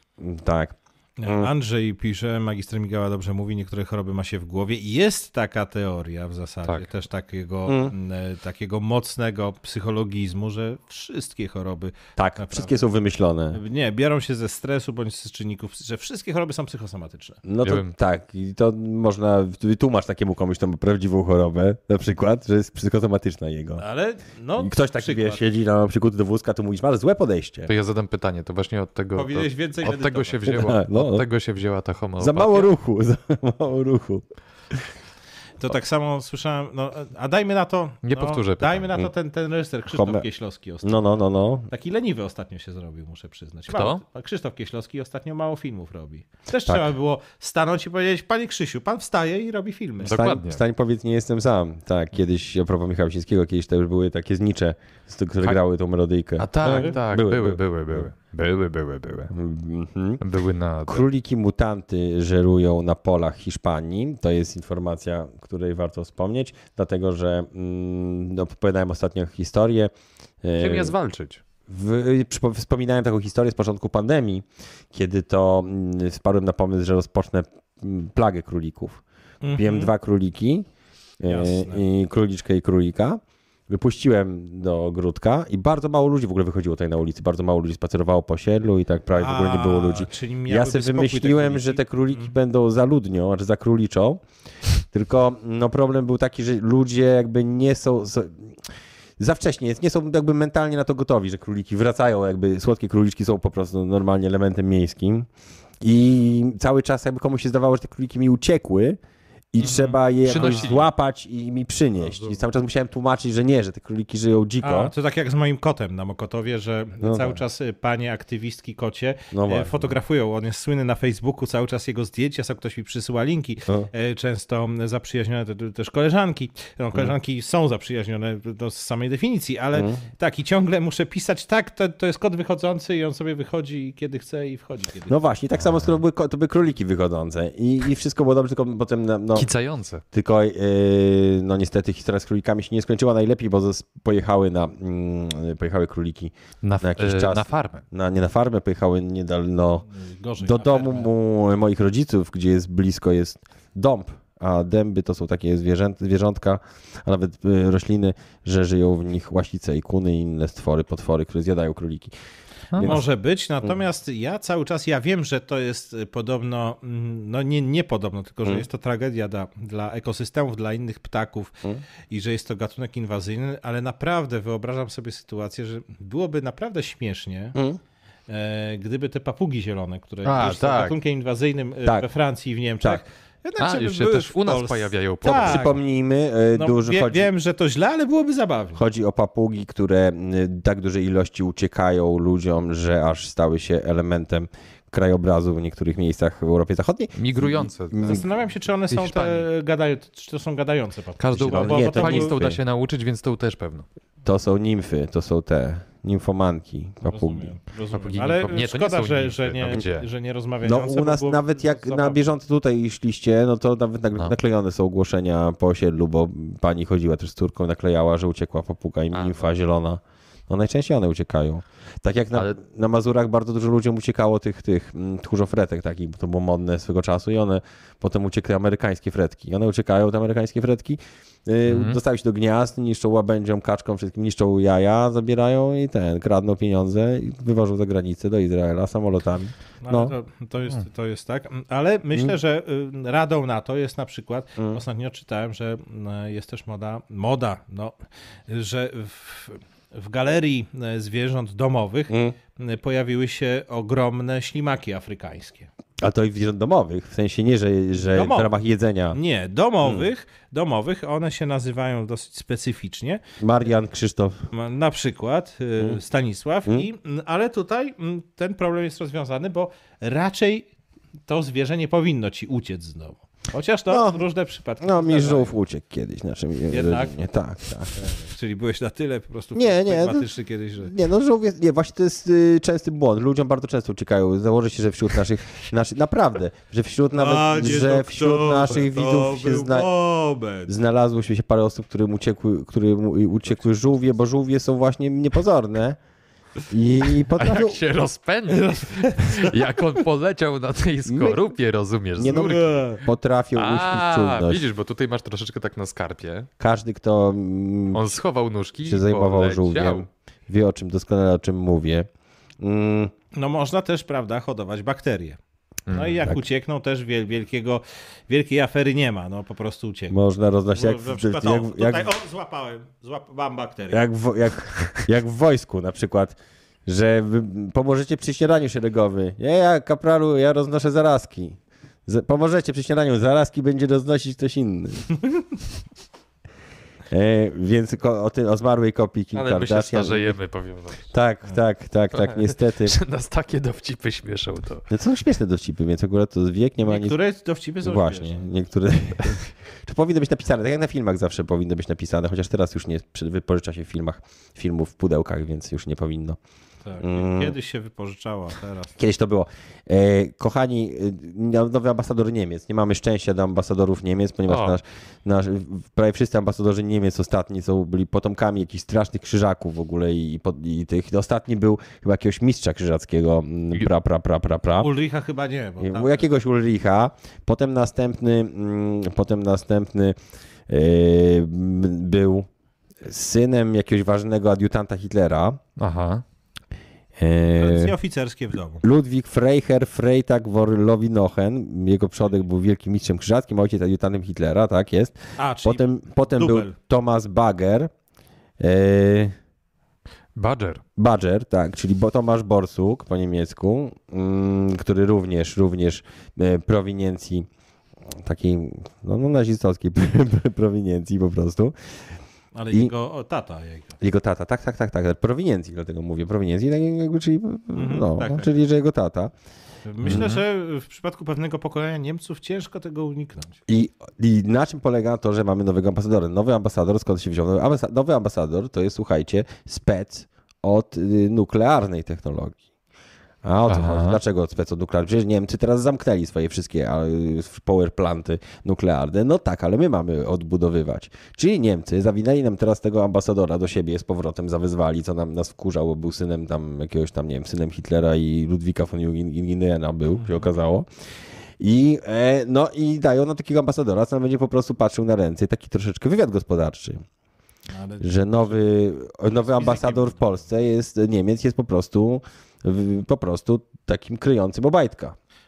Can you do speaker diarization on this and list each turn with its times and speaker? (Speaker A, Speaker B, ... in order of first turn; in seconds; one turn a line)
Speaker A: 0.2-1.5
Speaker B: 1.2-12.8
Speaker A: 7.7-7.9
Speaker A: 12.2-13.6
Speaker B: 13.5-17.4
Speaker A: 17.4-23.8
Speaker C: 17.6-17.9
Speaker B: 23.8-25.4
Speaker A: 24.6-27.7
Speaker C: 27.7-32.7
Speaker B: 29.1-30.6
Speaker A: 30.5-31.2
Speaker A: 32.2-34.8
Speaker B: 35.6-41.0
Speaker C: 38.0-38.9
Speaker A: 39.9-40.2
Speaker A: 40.8-41.7
Speaker B: 41.7-50.2
Speaker C: 43.7-44.0
Speaker A: 46.6-46.9
Speaker A: 50.0-58.1
Speaker C: 50.0-50.6
Speaker C: 56.4-59.3
Speaker B: 56.6-57.0
Speaker A: 59.3-60.2
Speaker C: 60.2-61.1
Speaker A: 60.9-69.9
Speaker A: 70.4-70.9
Speaker C: 70.6-71.4
Speaker A: 71.7-79.0
Speaker B: 79.4-79.9
Speaker A: 79.5-80.7
Speaker A: 81.2-94.2
Speaker B: 81.2-81.8
Speaker B: 89.2-92.3
Speaker A: 94.9-98.6
Speaker A: 99.2-105.3
Speaker A: 105.8-109.0
Speaker A: 109.5-114.9
Speaker B: 109.6-110.8
Speaker C: 110.2-110.8
Speaker B: 114.6-135.2
Speaker A: 117.0-117.4
Speaker A: 119.3-119.9
Speaker A: 129.7-130.0
Speaker A: 135.1-139.5
Speaker C: 135.6-135.9
Speaker C: 139.3-140.0
Speaker A: 140.1-149.8
Speaker C: 146.6-147.8
Speaker B: 149.9-151.1
Speaker A: 150.4-162.1
Speaker C: 162.7-163.0
Speaker A: 162.8-163.0
Speaker B: 162.8-171.5
Speaker B: 172.1-177.6
Speaker A: 177.5-177.8
Speaker B: 178.3-185.8
Speaker C: 180.2-180.9
Speaker C: 183.6-185.7
Speaker A: 185.2-187.3
Speaker B: 186.5-188.8
Speaker A: 188.8-198.2
Speaker C: 197.1-198.2
Speaker B: 198.0-202.5
Speaker C: 198.9-199.5
Speaker C: 201.2-203.8
Speaker A: 201.4-202.6
Speaker A: 204.2-207.5
Speaker B: 207.1-212.2
Speaker C: 207.9-210.1
Speaker A: 210.6-240.1
Speaker C: 219.1-219.4
Speaker C: 231.7-232.0
Speaker B: 239.8-247.9
Speaker B: 248.5-255.7
Speaker A: 252.1-252.3
Speaker A: 256.0-259.2
Speaker B: 258.0-258.5
Speaker B: 259.1-263.2
Speaker A: 259.8-260.1
Speaker A: 263.4-264.4
Speaker B: 264.5-270.7
Speaker B: 271.3-275.6
Speaker A: 273.9-274.2
Speaker A: 274.8-277.9
Speaker B: 276.7-277.1
Speaker B: 277.9-280.9
Speaker A: 279.5-280.3
Speaker A: 280.8-289.9
Speaker B: 287.1-290.7
Speaker A: 290.6-296.0
Speaker A: 296.7-297.8
Speaker C: 297.3-302.7
Speaker B: 298.5-299.6
Speaker A: 301.1-301.5
Speaker B: 302.2-303.0
Speaker A: 302.2-304.6
Speaker C: 303.5-306.5
Speaker A: 306.6-308.2
Speaker C: 307.9-310.1
Speaker A: 308.8-312.1
Speaker A: 312.6-313.1
Speaker B: 313.3-315.4
Speaker C: 315.9-316.2
Speaker B: 315.9-320.2
Speaker A: 320.1-322.1
Speaker B: 320.7-324.0
Speaker A: 323.9-335.1
Speaker A: 337.1-340.4
Speaker C: 339.3-341.1
Speaker A: 341.1-343.0
Speaker C: 342.1-344.9
Speaker A: 344.9-347.2
Speaker B: 346.8-348.5
Speaker A: 347.8-356.4
Speaker B: 356.8-359.0
Speaker A: 357.0-357.6
Speaker A: 359.0-374.9
Speaker C: 364.5-364.8
Speaker B: 374.8-376.3
Speaker A: 375.8-380.1
Speaker A: 380.7-382.5
Speaker A: 383.0-385.6
Speaker C: 385.8-386.2
Speaker A: 387.2-387.9
Speaker B: 387.6-388.8
Speaker A: 388.8-397.9
Speaker B: 395.4-396.8
Speaker A: 398.6-399.3
Speaker C: 400.4-400.8
Speaker A: 401.0-407.5
Speaker A: 408.1-411.7
Speaker B: 412.5-414.0
Speaker A: 414.0-419.3
Speaker B: 417.7-418.5
Speaker B: 419.8-423.6
Speaker C: 420.0-420.4
Speaker A: 423.7-432.6
Speaker A: 433.4-450.9
Speaker C: 433.7-434.2
Speaker B: 450.2-450.5
Speaker A: 451.6-457.0
Speaker B: 457.7-458.6
Speaker A: 458.0-465.1
Speaker B: 459.3-460.4